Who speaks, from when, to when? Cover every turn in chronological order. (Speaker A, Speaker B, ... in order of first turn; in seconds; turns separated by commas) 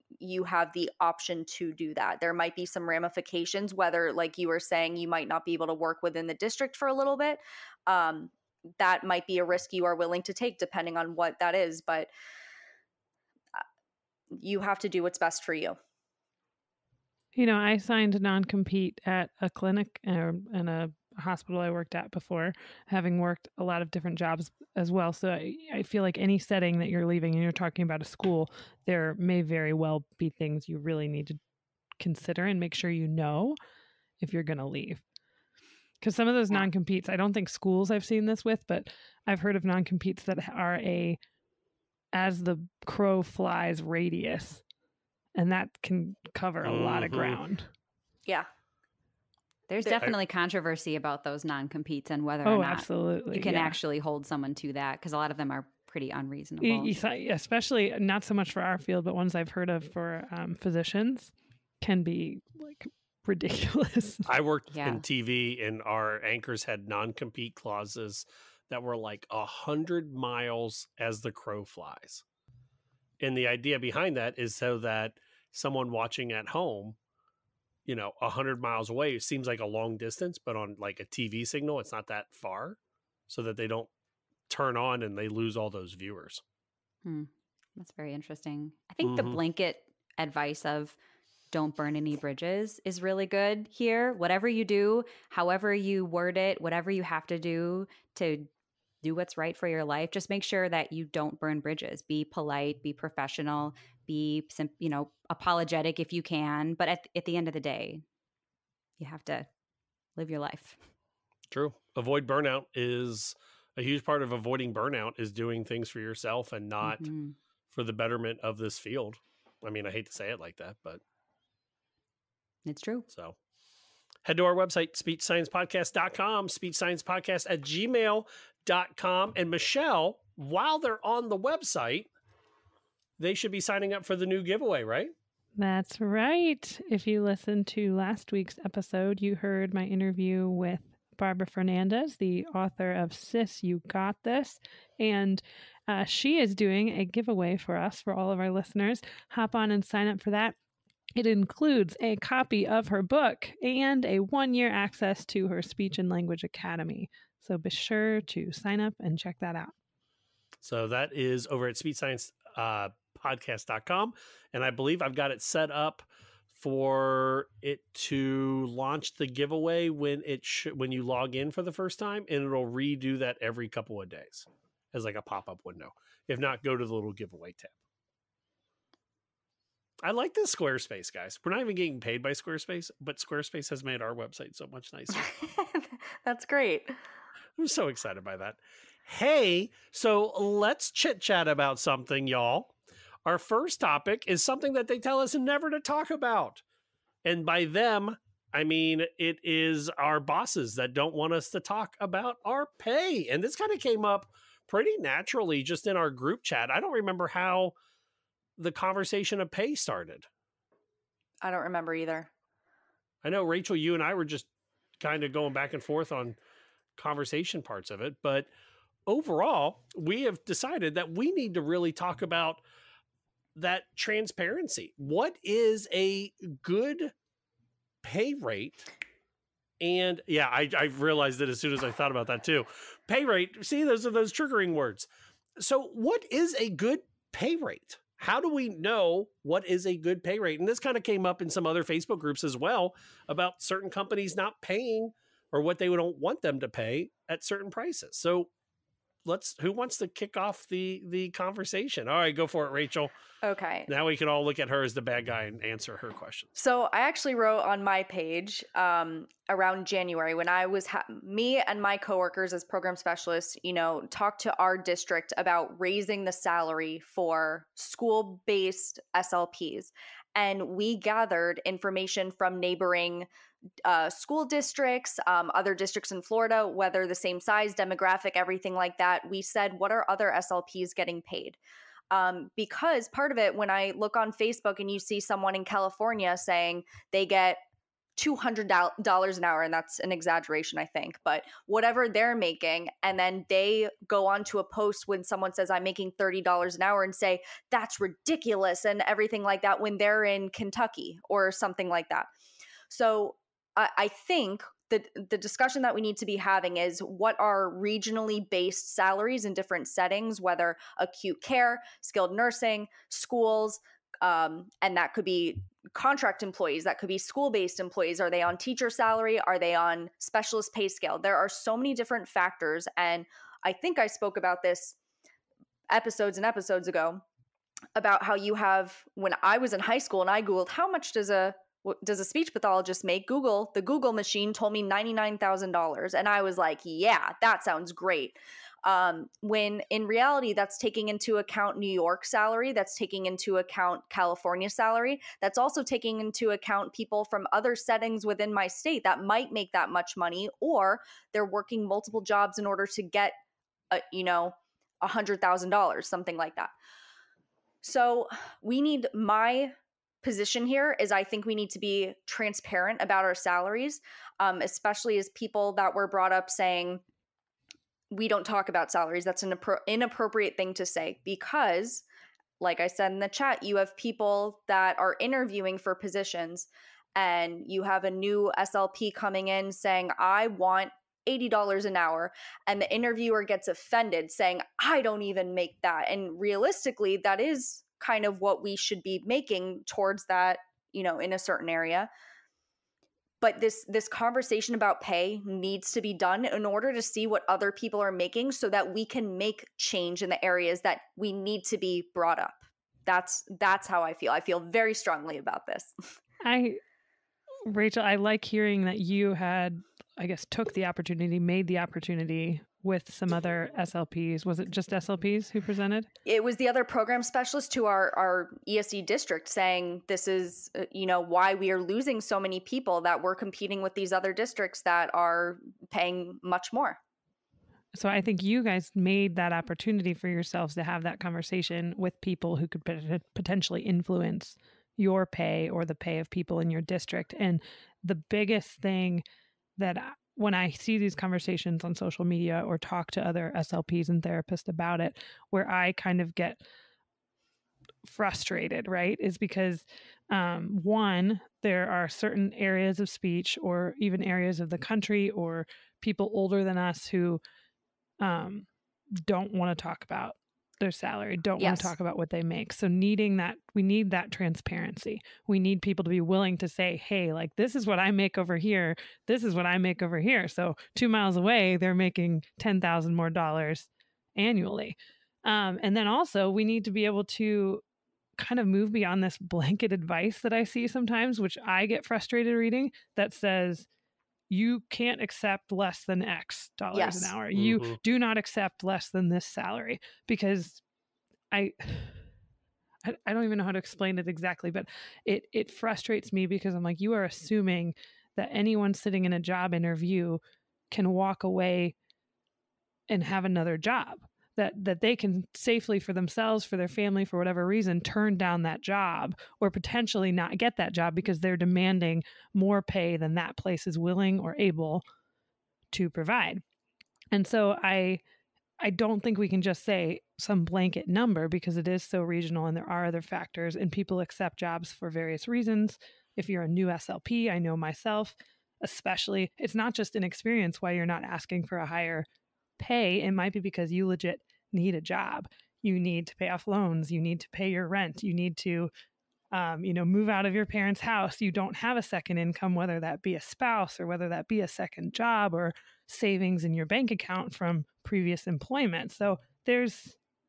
Speaker A: 0.2-12.1, Speaker A: 14.3-15.8, Speaker B: 17.4-31.4, Speaker B: 32.0-33.5, Speaker B: 34.2-35.0, Speaker B: 36.0-41.2, Speaker B: 42.1-44.6, Speaker B: 45.4-47.7, Speaker C: 46.6-47.4, Speaker D: 49.7-56.9, Speaker B: 52.4-53.8, Speaker B: 56.6-64.3, Speaker C: 64.2-72.2, Speaker D: 64.7-65.0, Speaker C: 73.2-77.0, Speaker C: 77.9-82.8, Speaker C: 83.3-83.9, Speaker C: 84.5-86.4, Speaker D: 87.0-91.0, Speaker C: 89.0-89.4, Speaker D: 91.5-98.5, Speaker D: 99.0-108.0, Speaker D: 109.0-109.5, Speaker D: 110.2-110.8, Speaker C: 111.5-117.1, Speaker D: 116.8-117.3, Speaker C: 117.7-121.0, Speaker D: 122.6-123.1, Speaker C: 123.1-123.4, Speaker C: 124.2-132.1, Speaker C: 133.2-135.1, Speaker B: 135.6-150.5, Speaker B: 151.2-159.7, Speaker C: 160.6-177.7, Speaker C: 180.0-185.3, Speaker A: 185.1-186.9, Speaker C: 187.6-192.7, Speaker C: 193.2-196.6, Speaker C: 197.2-207.7, Speaker C: 208.6-210.3, Speaker A: 211.4-212.3, Speaker C: 213.2-214.5, Speaker C: 215.0-216.4, Speaker C: 217.0-218.5, Speaker C: 219.1-222.6, Speaker C: 223.5-227.1, Speaker C: 228.0-228.9, Speaker C: 229.8-248.5, Speaker C: 249.2-253.1, Speaker A: 253.4-253.9, Speaker C: 253.9-256.5, Speaker A: 256.6-273.3, Speaker A: 273.8-281.6, Speaker A: 282.1-287.6, Speaker A: 288.2-302.3, Speaker A: 302.9-324.9, Speaker A: 325.9-327.2, Speaker A: 327.9-353.4, Speaker A: 353.9-356.7, Speaker A: 357.8-367.0, Speaker A: 368.1-372.0, Speaker A: 372.6-392.1, Speaker A: 393.4-405.9, Speaker B: 406.4-406.8, Speaker B: 407.7-416.1, Speaker A: 416.2-427.0, Speaker B: 427.9-439.2, Speaker B: 439.8-446.6, Speaker B: 448.0-457.4, Speaker B: 458.2-458.7, Speaker B: 459.2-477.8, Speaker A: 461.6-461.9, Speaker B: 478.4-483.9, Speaker B: 484.5-490.8, Speaker A: 486.9-487.3, Speaker C: 487.5-488.0, Speaker B: 491.5-492.2, Speaker B: 493.0-501.9, Speaker B: 503.1-515.0, Speaker B: 515.9-516.6, Speaker B: 517.3-518.2, Speaker B: 518.8-532.2, Speaker B: 532.8-538.9, Speaker B: 539.5-550.1